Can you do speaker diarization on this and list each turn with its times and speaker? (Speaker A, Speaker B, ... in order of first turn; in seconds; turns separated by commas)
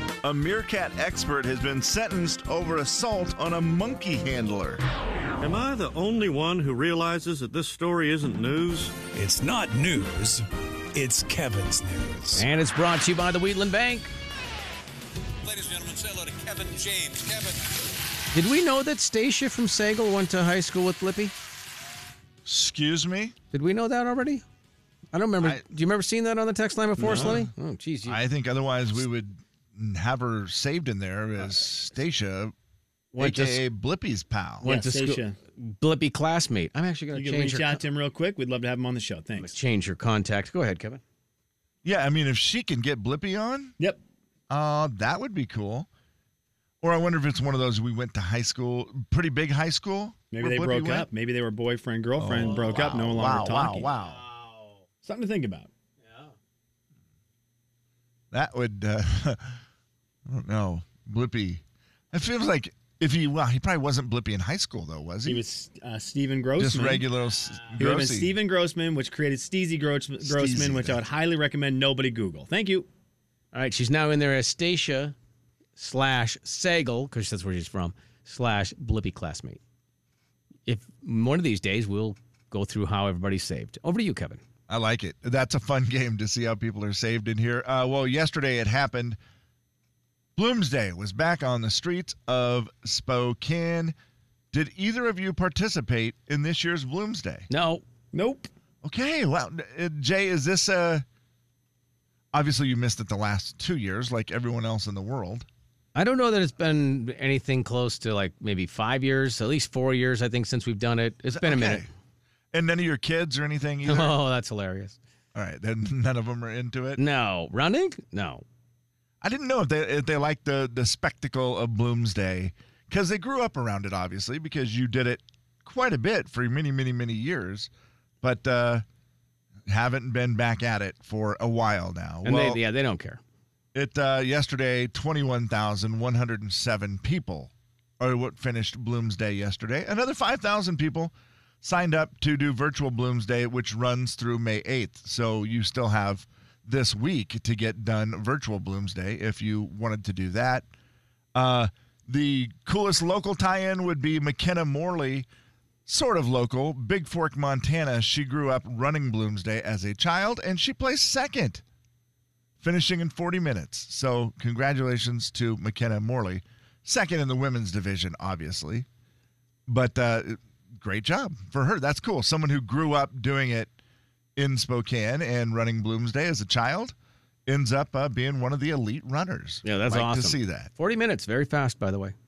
Speaker A: 0.2-4.8, Speaker B: 5.4-8.9, Speaker C: 9.1-10.4, Speaker C: 10.9-12.4, Speaker D: 12.4-14.1, Speaker E: 15.4-17.7, Speaker D: 18.3-21.3, Speaker A: 22.4-23.3, Speaker D: 23.5-24.4, Speaker D: 25.1-28.2, Speaker F: 27.0-27.4, Speaker A: 27.0-27.4, Speaker A: 28.0-32.5, Speaker D: 33.1-33.6, Speaker A: 33.2-34.7, Speaker D: 34.6-37.8, Speaker F: 34.6-35.4, Speaker F: 37.1-39.5, Speaker D: 39.4-41.0, Speaker A: 41.8-43.8, Speaker A: 44.5-45.9, Speaker A: 46.8-51.1, Speaker F: 50.3-53.9, Speaker A: 52.2-54.2, Speaker D: 52.4-54.8, Speaker F: 55.0-55.7, Speaker D: 56.0-56.3, Speaker A: 58.3-59.6, Speaker A: 60.2-65.4, Speaker F: 65.2-67.1, Speaker A: 66.6-68.4, Speaker F: 67.8-72.9, Speaker A: 70.2-71.0, Speaker D: 73.5-75.1, Speaker D: 75.8-79.6, Speaker D: 80.7-84.4, Speaker A: 84.7-89.2, Speaker A: 90.4-94.0, Speaker A: 94.5-97.5, Speaker D: 97.5-97.8, Speaker F: 98.1-98.5, Speaker A: 98.8-101.0, Speaker A: 102.3-105.5, Speaker D: 106.0-111.9, Speaker A: 111.3-111.9, Speaker A: 112.5-114.2, Speaker D: 113.8-115.0, Speaker A: 115.3-117.0, Speaker D: 117.0-118.5, Speaker A: 119.2-127.7, Speaker A: 128.2-128.8, Speaker A: 129.7-132.6, Speaker D: 132.2-133.2, Speaker A: 133.7-150.7, Speaker A: 151.3-155.3, Speaker A: 155.8-161.6, Speaker A: 162.6-168.9, Speaker A: 169.7-173.7, Speaker A: 174.3-176.9, Speaker A: 177.5-180.7, Speaker D: 179.6-182.2